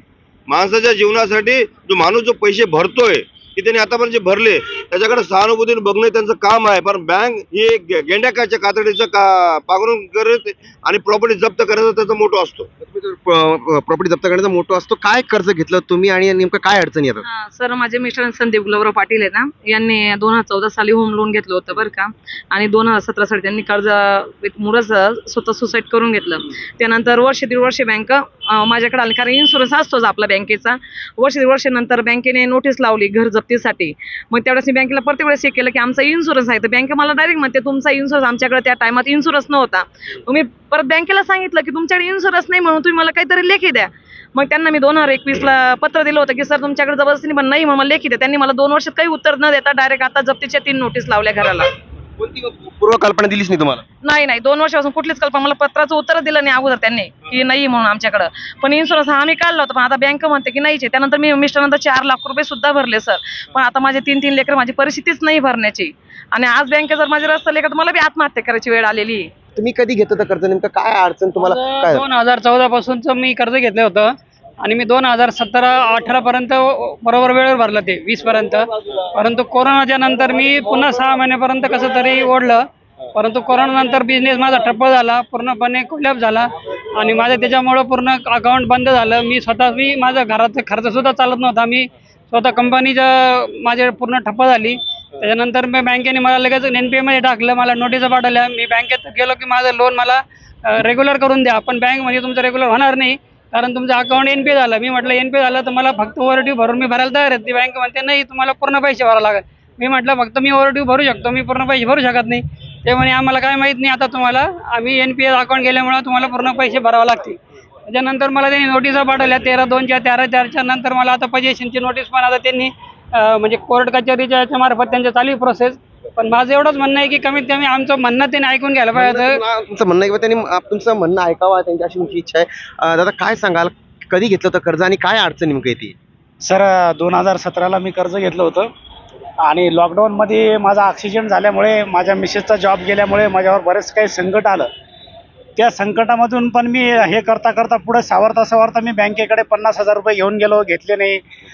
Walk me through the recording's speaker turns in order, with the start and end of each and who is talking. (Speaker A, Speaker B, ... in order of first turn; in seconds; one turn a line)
Speaker A: 0.5-12.7
Speaker B: 12.8-17.2
Speaker C: 17.3-51.7
Speaker B: 52.2-53.8
Speaker C: 54.0-69.3
Speaker B: 69.6-72.0
Speaker D: 71.4-74.1
Speaker D: 74.6-82.6
Speaker D: 83.2-129.4
Speaker B: 128.9-135.9
Speaker E: 136.4-138.7
Speaker E: 139.5-144.7
Speaker E: 145.6-151.2